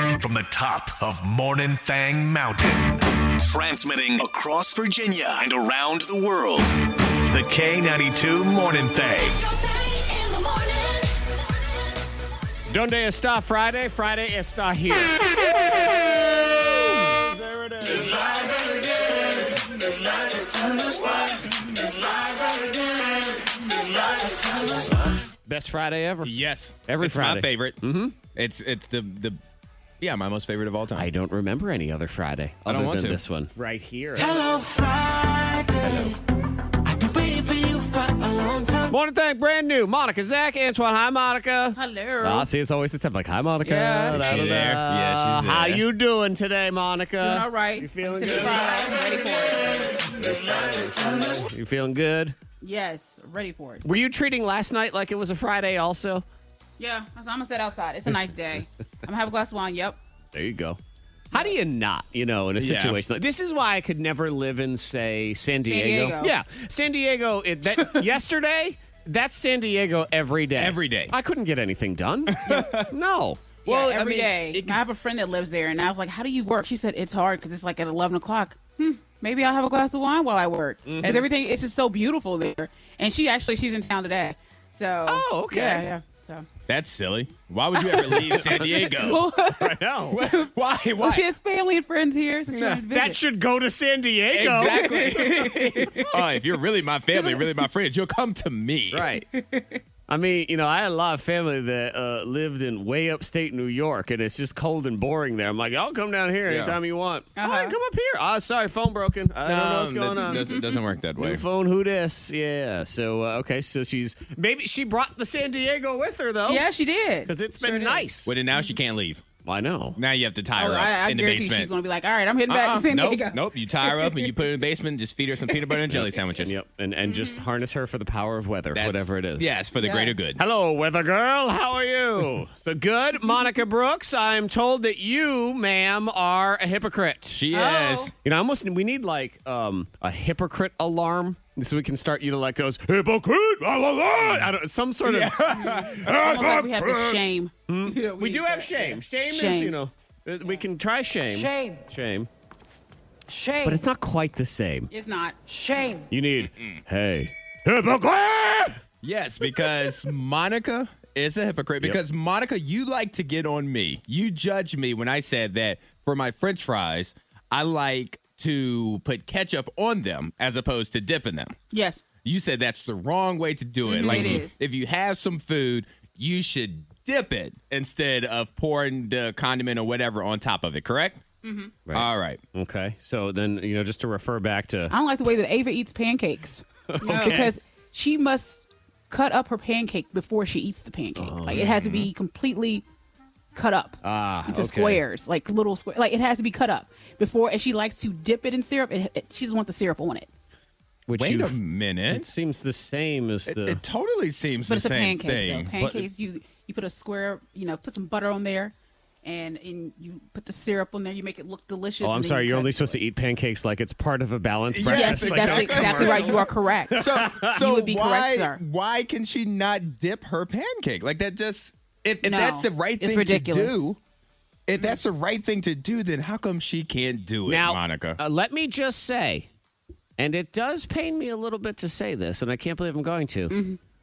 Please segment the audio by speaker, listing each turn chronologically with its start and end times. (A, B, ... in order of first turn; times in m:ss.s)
0:00.2-0:09.6 A
0:10.2-0:10.5 A
0:12.7-0:15.2 B
0:16.6-0:18.3 B
0:25.3-0:26.4 B
0:26.2-0:29.4 C
0:26.9-0:28.2 B
0:30.0-0:31.1 C
0:31.0-0:34.4 B
0:32.7-0:33.2 C
0:34.3-0:35.7 D
0:35.8-0:36.2 B
0:37.0-0:38.8 D
0:38.8-0:48.7 B
0:41.8-0:42.5 E
0:43.6-0:44.2 E
0:44.1-0:45.8 C
0:47.2-0:50.1 E
0:50.2-0:52.4 B
0:52.6-0:53.8 E
0:53.8-0:56.3 B
0:56.8-1:00.0 E
1:00.3-1:00.8 B
1:01.3-1:13.5 B
1:02.6-1:03.0 C
1:05.6-1:06.3 E
1:10.6-1:11.1 C
1:12.3-1:12.9 C
1:13.6-1:14.8 C
1:13.6-1:26.4 E
1:20.9-1:21.2 B
1:25.1-1:25.9 B
1:26.7-1:29.3 C
1:27.8-1:33.2 E
1:28.3-1:30.2 B
1:30.1-1:31.3 C
1:32.5-1:32.8 C
1:32.9-1:35.1 B
1:34.3-1:39.1 C
1:34.6-1:36.1 E
1:37.1-1:37.6 E
1:38.9-1:39.2 B
1:39.3-1:39.8 E
1:40.1-1:50.6 B
1:46.5-1:46.8 C
1:47.4-1:47.8 E
1:49.4-1:51.4 C
1:50.3-1:50.8 E
1:51.2-1:56.6 B
1:56.5-1:57.7 E
1:57.3-1:58.3 B
1:57.6-1:59.2 C
1:59.4-2:00.0 B
2:00.0-2:01.7 C
2:00.6-2:04.3 E
2:02.5-2:06.6 C
2:06.4-2:09.6 B
2:07.0-2:07.4 E
2:08.7-2:10.4 C
2:09.8-2:10.1 E
2:10.3-2:17.4 B
2:17.3-2:18.1 C
2:17.5-2:18.1 E
2:18.2-2:32.3 B
2:25.0-2:26.1 C
2:25.5-2:29.8 E
2:31.3-2:31.8 D
2:33.3-2:33.8 D
2:33.6-2:34.9 B
2:34.9-2:35.4 E
2:35.5-2:36.0 D
2:36.1-2:38.8 B
2:36.4-2:36.8 C
2:39.0-2:51.6 C
2:51.7-2:52.0 E
2:52.2-3:01.2 C
2:53.8-2:54.6 E
2:54.1-2:54.4 B
3:01.4-3:01.7 E
3:01.9-3:04.9 B
3:01.9-3:02.4 C
3:04.9-3:12.8 E
3:06.9-3:07.5 B
3:11.2-3:11.7 B
3:11.5-3:12.1 C
3:13.5-3:20.3 E
3:14.0-3:15.0 B
3:21.1-3:21.6 B
3:21.2-3:22.3 C
3:22.1-3:23.8 B
3:23.5-3:25.7 C
3:24.7-3:33.0 E
3:25.8-3:26.1 B
3:32.0-3:37.6 B
3:34.7-3:44.0 C
3:34.9-3:38.6 E
3:42.2-3:43.9 E
3:44.7-3:48.2 C
3:47.4-3:49.5 B
3:50.2-3:53.6 B
3:53.5-3:53.8 E